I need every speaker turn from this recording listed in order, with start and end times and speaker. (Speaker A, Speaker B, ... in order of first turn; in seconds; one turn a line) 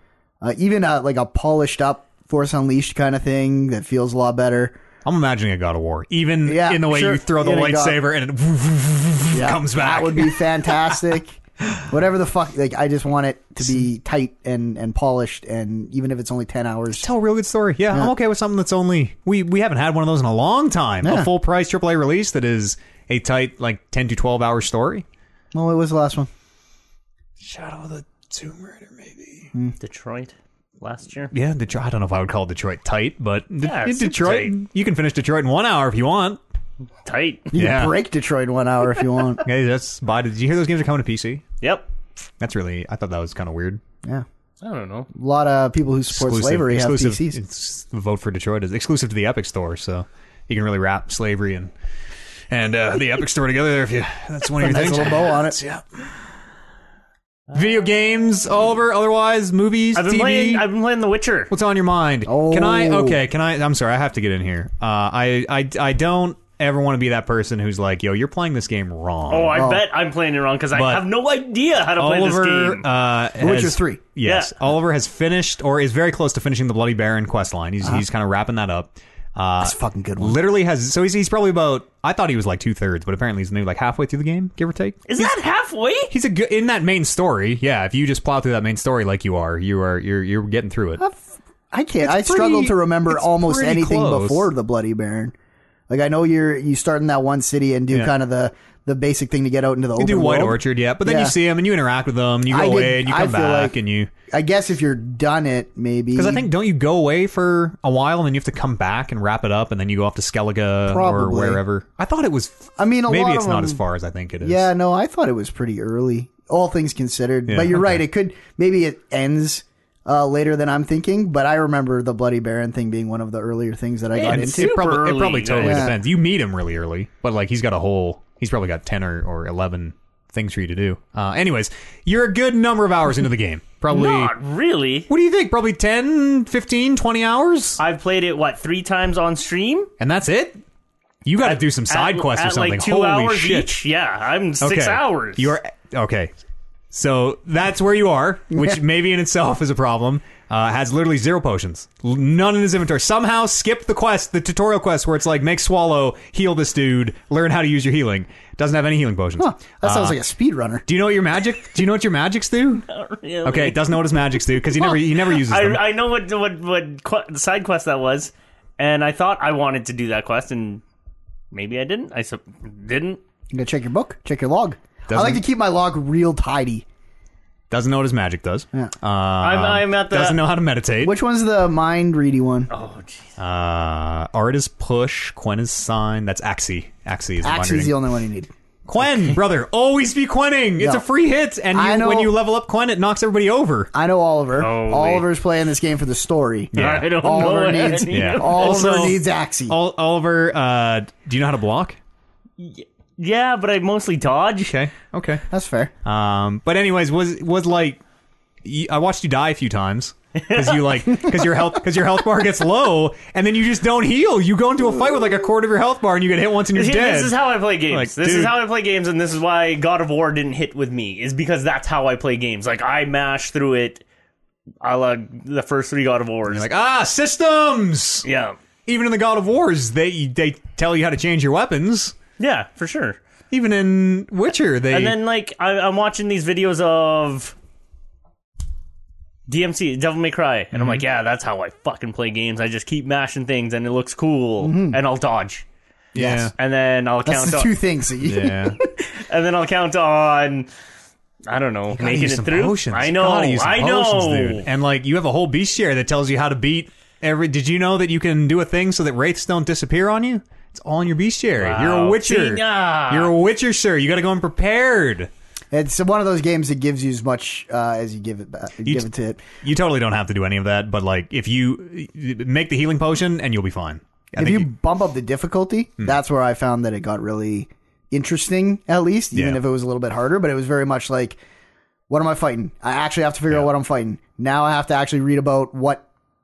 Speaker A: 0.4-4.8
Speaker B: 5.0-11.0
Speaker A: 6.5-8.0
Speaker A: 9.3-17.1
Speaker B: 16.9-25.1
Speaker A: 21.0-21.3
Speaker A: 25.5-26.3
Speaker B: 27.4-29.5
Speaker C: 29.8-31.3
Speaker B: 31.3-36.4
Speaker C: 33.6-34.5
Speaker C: 37.0-37.5
Speaker A: 37.5-39.4
Speaker B: 37.5-38.0
Speaker B: 39.4-41.4
Speaker C: 41.6-41.9
Speaker B: 42.4-43.8
Speaker C: 44.6-45.1
Speaker A: 45.1-47.4
Speaker B: 46.1-51.7
Speaker B: 52.5-56.1
Speaker A: 54.6-55.6
Speaker B: 57.5-60.6
Speaker C: 59.9-61.5
Speaker B: 61.5-69.7
Speaker A: 62.2-63.2
Speaker C: 69.3-72.8
Speaker A: 69.5-69.8
Speaker B: 70.7-71.1
Speaker B: 72.0-85.3
Speaker A: 73.4-74.0
Speaker C: 74.2-74.5
Speaker A: 79.6-80.4
Speaker C: 85.1-86.1
Speaker B: 86.1-91.0
Speaker A: 91.7-95.3
Speaker B: 92.0-94.5
Speaker A: 95.9-101.3
Speaker B: 100.0-104.1
Speaker A: 102.5-103.8
Speaker A: 104.3-106.5
Speaker B: 106.1-114.7
Speaker A: 110.9-111.6
Speaker A: 112.8-113.8
Speaker A: 114.4-124.8
Speaker B: 117.5-118.0
Speaker C: 124.1-125.9
Speaker B: 124.2-134.3
Speaker A: 125.6-126.0
Speaker C: 133.9-135.1
Speaker B: 135.1-137.8
Speaker C: 137.8-139.9
Speaker B: 140.0-140.6
Speaker B: 141.2-143.7
Speaker C: 141.4-145.5
Speaker B: 144.6-146.3
Speaker B: 146.9-160.2
Speaker A: 159.4-160.8
Speaker B: 160.9-162.8
Speaker C: 162.9-170.8
Speaker B: 163.4-165.8
Speaker C: 171.5-173.2
Speaker A: 173.5-176.8
Speaker B: 175.1-175.4
Speaker B: 177.7-181.1
Speaker C: 179.4-180.4
Speaker A: 181.0-182.7
Speaker C: 182.7-183.3
Speaker B: 183.4-187.9
Speaker A: 187.4-188.5
Speaker B: 188.8-193.9
Speaker A: 190.8-191.0
Speaker A: 191.7-192.3
Speaker A: 193.9-199.7
Speaker C: 194.6-195.3
Speaker B: 196.7-197.2
Speaker C: 196.7-199.0
Speaker B: 198.1-202.0
Speaker C: 202.6-204.7
Speaker B: 204.7-205.4
Speaker A: 205.5-205.9
Speaker B: 206.0-208.0
Speaker B: 208.6-218.6
Speaker C: 210.3-210.8
Speaker C: 216.7-224.0
Speaker C: 224.8-226.7
Speaker B: 226.5-228.2
Speaker C: 228.2-228.6
Speaker B: 228.8-232.2
Speaker C: 232.4-233.2
Speaker B: 233.5-235.2
Speaker C: 234.9-237.6
Speaker C: 239.5-245.6
Speaker B: 240.7-241.0
Speaker A: 244.6-245.0
Speaker B: 246.1-246.5
Speaker A: 246.1-246.5
Speaker C: 246.6-247.8
Speaker A: 247.2-248.9
Speaker B: 248.2-248.8
Speaker C: 249.0-250.7
Speaker C: 251.5-254.7
Speaker B: 251.9-265.3
Speaker C: 261.6-263.3
Speaker A: 265.7-269.4
Speaker B: 268.8-269.1
Speaker B: 269.6-274.7
Speaker A: 274.4-281.4
Speaker B: 279.3-279.6
Speaker A: 282.1-286.0